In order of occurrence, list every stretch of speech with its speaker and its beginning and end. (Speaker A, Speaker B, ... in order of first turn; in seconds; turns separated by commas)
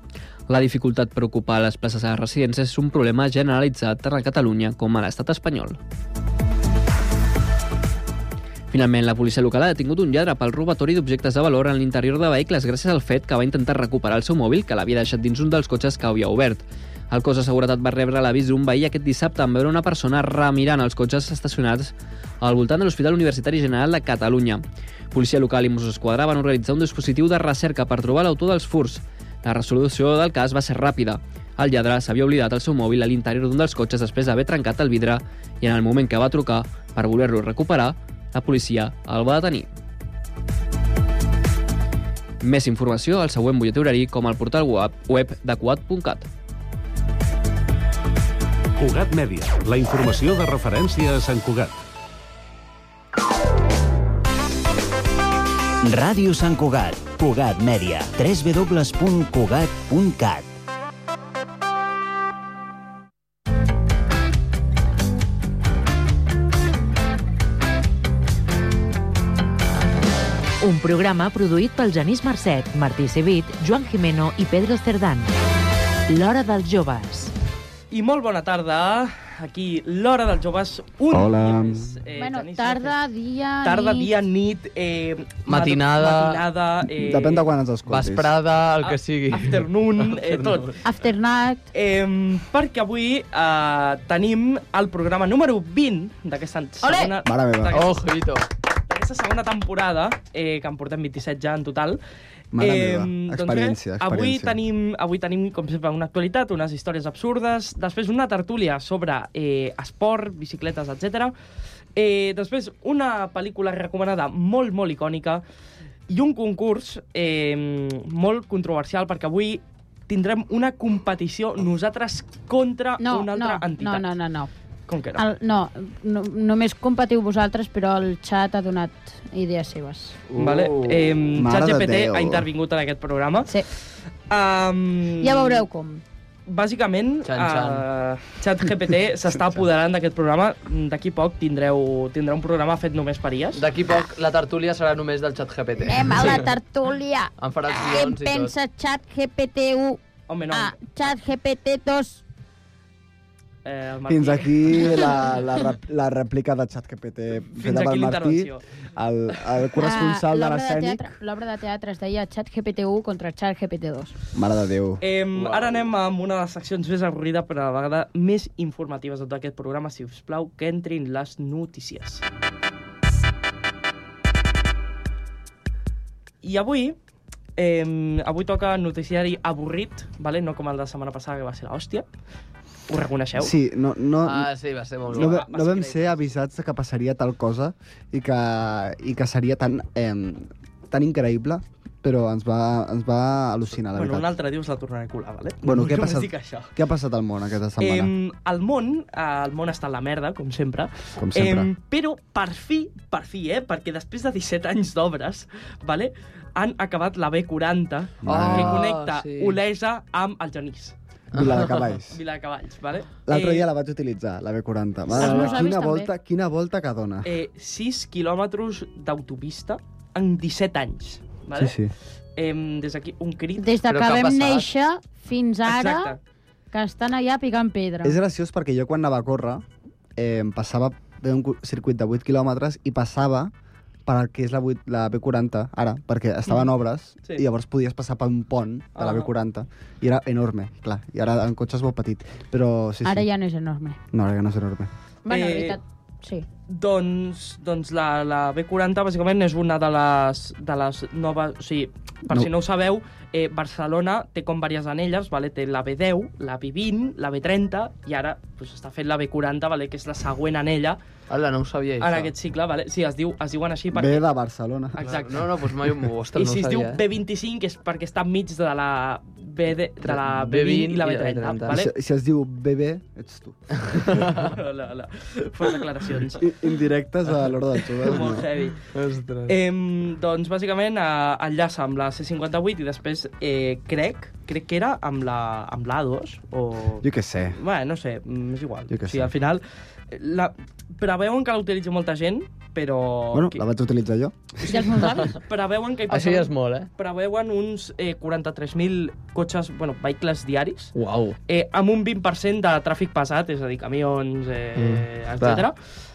Speaker A: 0.5-5.8, Speaker A: 8.7-39.7, Speaker A: 42.4-46.3, Speaker B: 48.8-51.8, Speaker C: 55.8-60.5, Speaker D: 70.6-75.3, Speaker D: 76.1-77.3, Speaker E: 77.9-83.0, Speaker F: 81.1-81.9, Speaker G: 82.2-84.1, Speaker E: 83.6-87.5, Speaker H: 85.5-86.4, Speaker F: 86.9-88.3, Speaker H: 87.9-90.7, Speaker E: 88.8-90.8, Speaker G: 90.8-91.6, Speaker E: 91.7-98.0, Speaker G: 96.8-97.1, Speaker F: 97.2-97.8, Speaker H: 97.7-98.5, Speaker E: 98.9-102.0, Speaker F: 102.5-104.6, Speaker E: 102.6-111.3, Speaker E: 112.0-115.4, Speaker E: 116.1-124.1, Speaker G: 123.0-124.5, Speaker E: 124.9-125.2, Speaker G: 125.2-130.2, Speaker F: 130.3-132.5, Speaker E: 130.4-135.6, Speaker G: 135.2-136.0, Speaker E: 136.5-143.6, Speaker H: 137.2-137.9, Speaker H: 143.5-146.5, Speaker G: 145.8-150.0, Speaker H: 147.4-148.5, Speaker E: 150.3-150.8, Speaker G: 150.5-152.2, Speaker E: 153.6-155.3, Speaker F: 154.1-161.1, Speaker E: 157.5-158.6, Speaker G: 159.8-164.1, Speaker F: 164.3-165.0, Speaker E: 165.0-172.2, Speaker H: 165.3-165.8, Speaker E: 176.4-176.9, Speaker E: 177.6-182.1, Speaker E: 182.9-183.5, Speaker F: 183.4-184.5, Speaker H: 184.2-185.4, Speaker E: 185.1-186.2, Speaker F: 185.1-194.3, Speaker E: 193.9-196.7, Speaker F: 195.6-198.1, Speaker E: 197.8-210.9, Speaker F: 201.2-201.7, Speaker F: 208.2-208.8, Speaker H: 208.2-209.6, Speaker F: 211.3-212.2, Speaker E: 212.1-213.7, Speaker F: 213.3-217.3, Speaker G: 215.1-216.1, Speaker E: 215.2-215.6, Speaker E: 217.2-221.8, Speaker F: 221.5-221.9, Speaker E: 222.3-223.7, Speaker G: 223.6-226.1, Speaker H: 223.9-224.7, Speaker E: 225.7-226.2, Speaker G: 226.7-228.2, Speaker F: 228.0-229.6, Speaker F: 230.2-233.5, Speaker F: 234.1-243.3, Speaker E: 239.0-239.3, Speaker G: 243.0-244.0, Speaker F: 244.1-244.9, Speaker G: 245.2-246.4, Speaker E: 245.3-245.8, Speaker E: 246.7-261.0, Speaker H: 261.3-262.3, Speaker E: 262.0-264.2, Speaker F: 263.9-265.0, Speaker E: 264.9-265.7, Speaker H: 265.0-267.0, Speaker E: 266.3-271.9, Speaker H: 270.0-271.8, Speaker F: 271.7-274.2, Speaker H: 273.8-274.5, Speaker E: 274.2-276.6, Speaker F: 276.4-278.5, Speaker E: 277.9-278.8, Speaker H: 278.9-279.6, Speaker E: 279.5-293.6, Speaker F: 287.0-287.6, Speaker F: 288.9-289.3, Speaker F: 293.3-294.5, Speaker E: 294.6-300.9, Speaker G: 294.7-295.4, Speaker H: 296.1-296.9, Speaker H: 300.9-301.4, Speaker E: 301.5-305.8, Speaker H: 304.8-305.7